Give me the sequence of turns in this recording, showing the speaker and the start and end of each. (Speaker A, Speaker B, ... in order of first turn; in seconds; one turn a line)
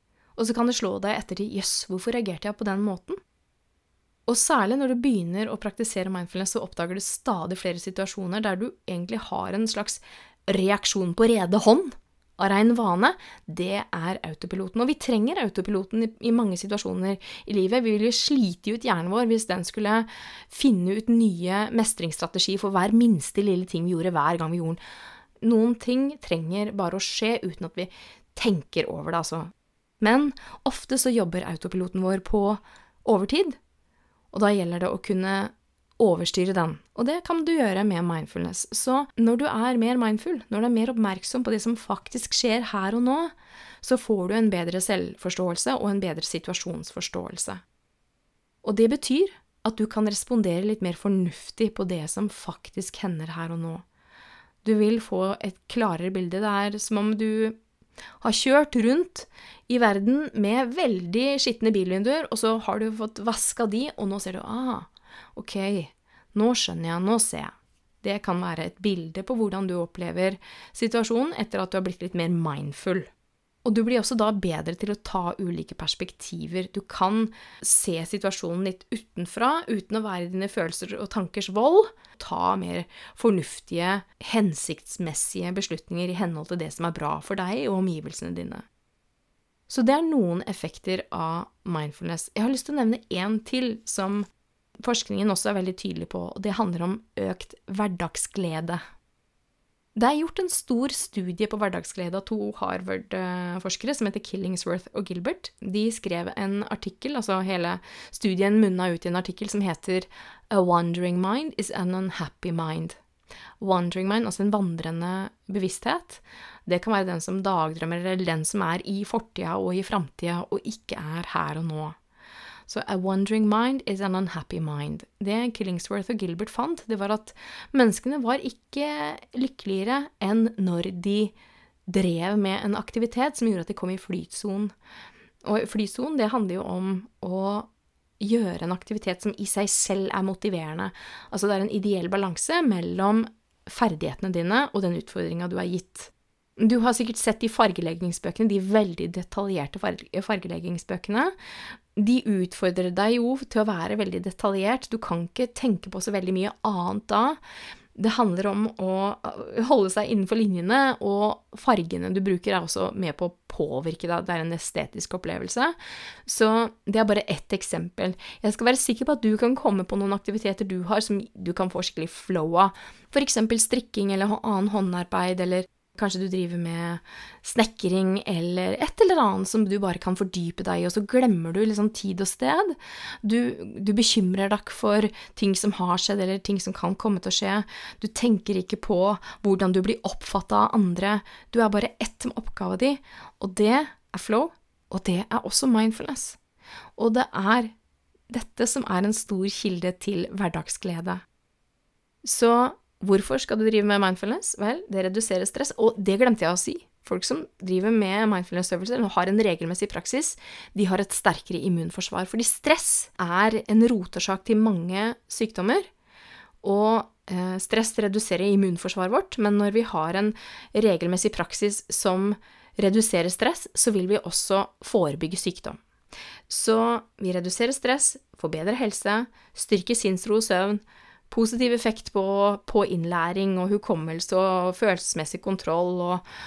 Speaker A: 0.4-3.2
Speaker A: 4.3-24.8
Speaker A: 25.4-33.6
Speaker A: 34.3-47.6
Speaker A: 48.6-53.8
Speaker A: 54.6-57.6
Speaker A: 58.2-73.1
Speaker A: 73.7-88.7
Speaker A: 89.7-94.3
Speaker A: 94.8-98.8
Speaker A: 100.0-113.0
Speaker A: 113.6-122.0
Speaker A: 122.7-131.3
Speaker A: 131.9-134.7
Speaker A: 135.4-151.3
Speaker A: 152.0-157.4
Speaker A: 157.9-165.8
Speaker A: 166.2-196.4
Speaker A: 197.0-197.8
Speaker A: 198.3-201.2
Speaker A: 202.2-215.9
Speaker A: 216.6-225.8
Speaker A: 226.5-236.2